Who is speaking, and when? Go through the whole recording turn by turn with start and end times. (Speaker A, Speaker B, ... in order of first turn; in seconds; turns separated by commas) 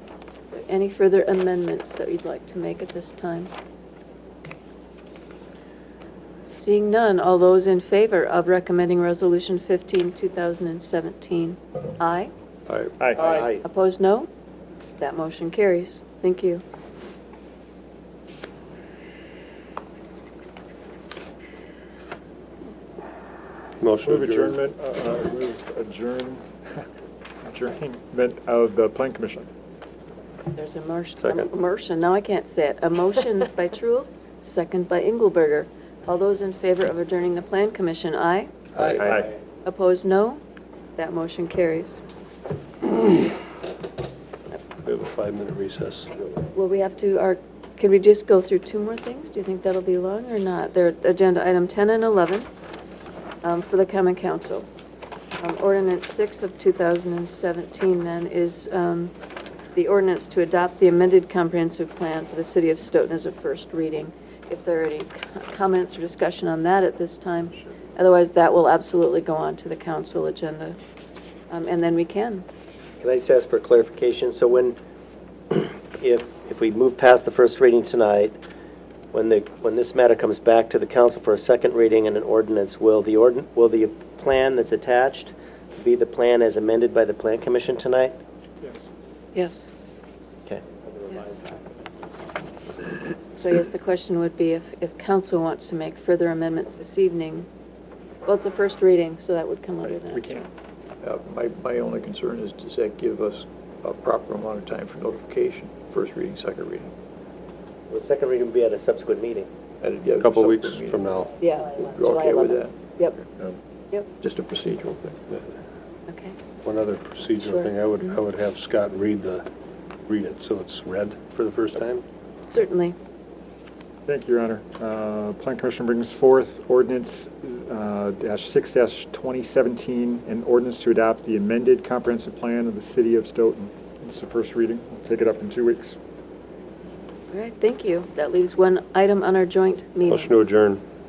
Speaker A: 0.5-3.5, Speaker A: 6.5-12.3, Speaker B: 12.7-13.6, Speaker C: 13.0-13.4, Speaker A: 13.2-14.3, Speaker A: 15.0-16.6, Speaker D: 23.8-24.6, Speaker C: 24.0-26.9, Speaker C: 27.4-29.5, Speaker A: 30.5-38.5, Speaker D: 31.2-31.5, Speaker D: 38.8-39.2, Speaker A: 39.6-40.4, Speaker A: 41.0-42.0, Speaker D: 44.8-46.1, Speaker A: 46.5-52.5, Speaker A: 53.4-54.7, Speaker A: 55.4-59.1, Speaker A: 59.8-70.8, Speaker A: 71.5-72.5, Speaker B: 73.0-74.8, Speaker B: 75.5-78.4, Speaker B: 79.1-88.2, Speaker A: 89.3-89.8, Speaker B: 90.5-91.1, Speaker A: 91.1-91.4, Speaker A: 93.3-97.5, Speaker A: 98.2-100.5, Speaker C: 99.8-100.5, Speaker E: 101.0-106.9, Speaker B: 107.9-109.5, Speaker E: 109.8-111.1, Speaker D: 110.2-111.4, Speaker A: 111.4-113.2, Speaker E: 111.7-112.8, Speaker E: 114.2-115.2, Speaker A: 116.1-116.4, Speaker D: 116.6-119.5, Speaker A: 117.4-118.2, Speaker D: 120.1-122.0, Speaker A: 122.5-123.0, Speaker C: 124.1-136.0, Speaker A: 137.3-140.3, Speaker D: 140.1-140.8